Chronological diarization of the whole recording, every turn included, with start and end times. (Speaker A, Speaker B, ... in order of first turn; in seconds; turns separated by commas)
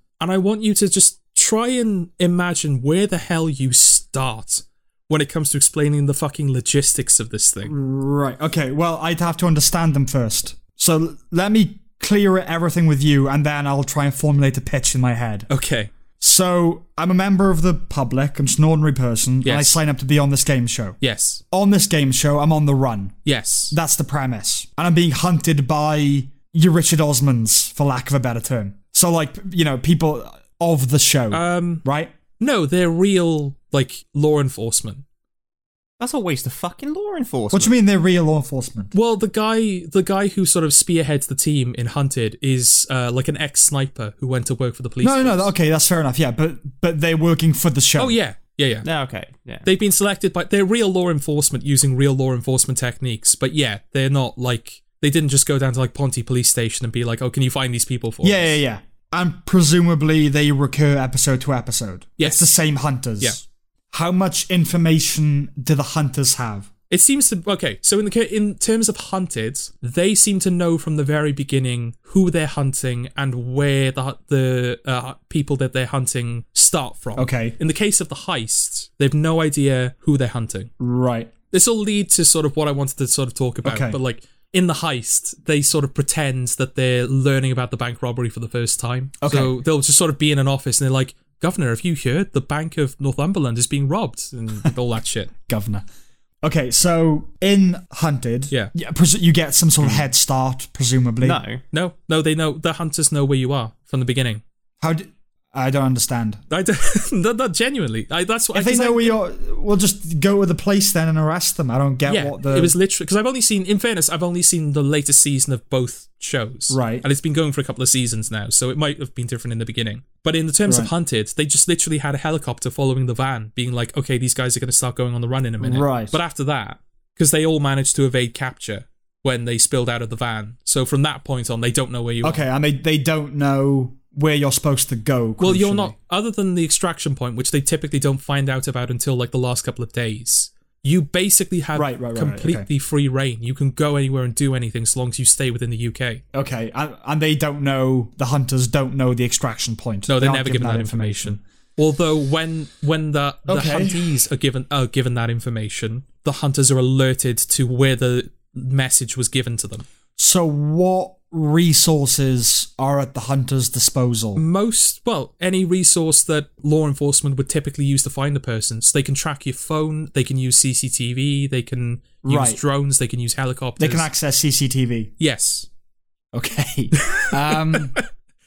Speaker A: 0.2-7.7, Speaker B: 7.6-15.5, Speaker A: 15.5-15.9, Speaker B: 16.2-21.0, Speaker A: 19.4-19.8, Speaker A: 21.0-21.4, Speaker B: 21.5-23.2, Speaker A: 23.2-23.7, Speaker B: 23.7-32.1, Speaker A: 31.3-31.8, Speaker A: 32.4-35.0, Speaker C: 36.0-37.7, Speaker B: 37.5-38.9, Speaker A: 38.9-45.5, Speaker B: 45.0-48.2, Speaker A: 48.0-48.9, Speaker C: 48.8-49.6, Speaker A: 49.6-58.6, Speaker B: 58.2-66.7, Speaker A: 62.2-62.5, Speaker A: 66.9-80.7, Speaker B: 77.2-77.5, Speaker B: 80.8-81.3, Speaker A: 81.5-95.3, Speaker B: 83.6-84.0, Speaker B: 89.2-89.6, Speaker B: 95.5-95.8, Speaker B: 96.4-101.4, Speaker C: 101.2-101.6, Speaker A: 101.7-104.4, Speaker B: 104.8-106.4, Speaker A: 106.5-109.2, Speaker B: 108.5-112.7, Speaker A: 112.0-132.4, Speaker B: 116.7-117.0, Speaker B: 125.6-126.2, Speaker B: 132.2-135.9, Speaker A: 135.4-146.2, Speaker B: 141.7-142.7, Speaker B: 146.3-151.4, Speaker A: 150.1-159.8, Speaker B: 153.5-154.0, Speaker B: 160.2-164.4, Speaker A: 164.3-174.1, Speaker B: 172.2-172.6, Speaker B: 173.8-175.1, Speaker A: 175.2-175.7, Speaker B: 176.3-178.0, Speaker A: 176.9-178.0